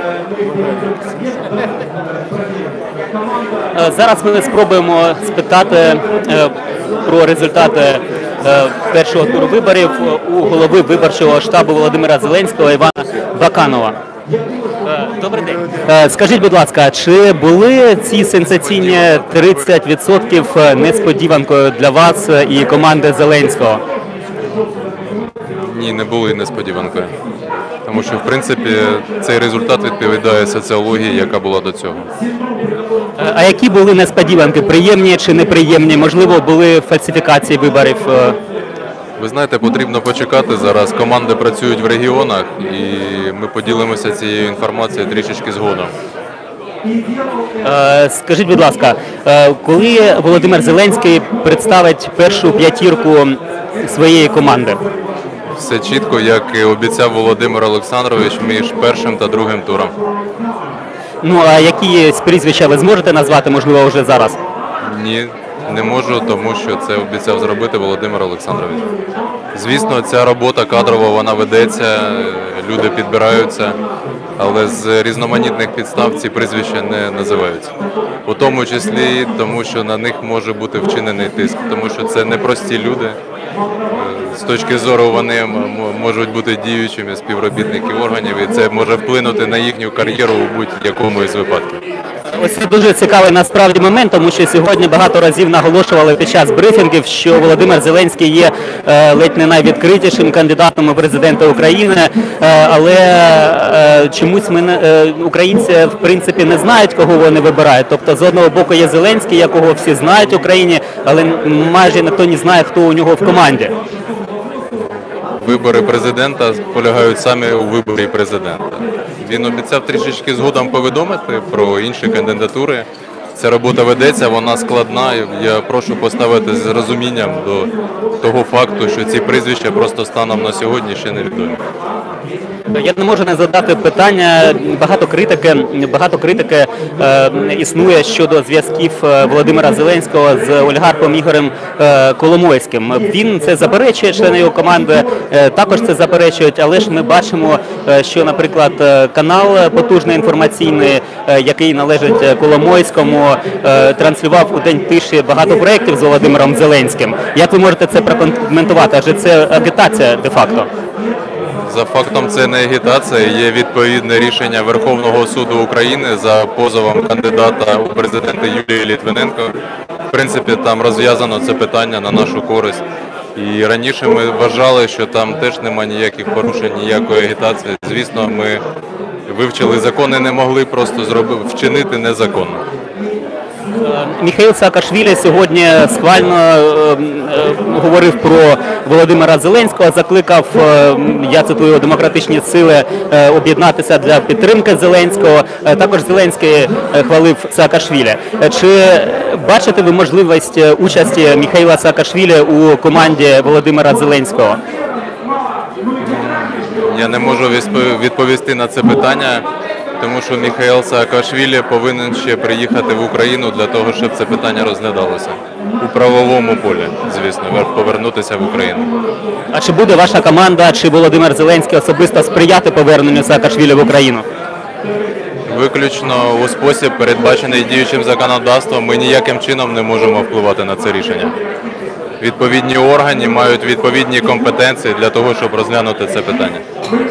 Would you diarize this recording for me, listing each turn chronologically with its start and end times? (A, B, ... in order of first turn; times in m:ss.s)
0:03.7-0:14.0 A
0:14.8-0:23.8 A
0:25.6-0:27.1 B
0:27.8-0:32.1 B
0:33.2-0:38.4 A
0:39.2-0:45.9 B
0:47.6-0:54.8 A
0:55.6-1:00.0 B
1:01.2-1:04.4 A
1:04.8-1:08.9 B
1:09.5-1:13.8 B
1:14.4-1:17.7 B
1:18.2-1:23.2 B
1:23.9-1:31.8 B
1:32.3-1:53.7 A
1:55.4-2:07.7 B
2:08.2-2:11.6 B
2:12.7-2:40.7 A
2:41.6-2:49.6 B
2:50.1-2:52.8 B
2:53.4-2:58.6 B
2:59.3-3:02.6 B
3:03.8-3:24.6 A
3:26.0-3:29.5 B
3:30.0-3:38.9 B
3:39.5-3:44.2 A
3:45.4-3:51.4 B
3:52.2-3:56.6 B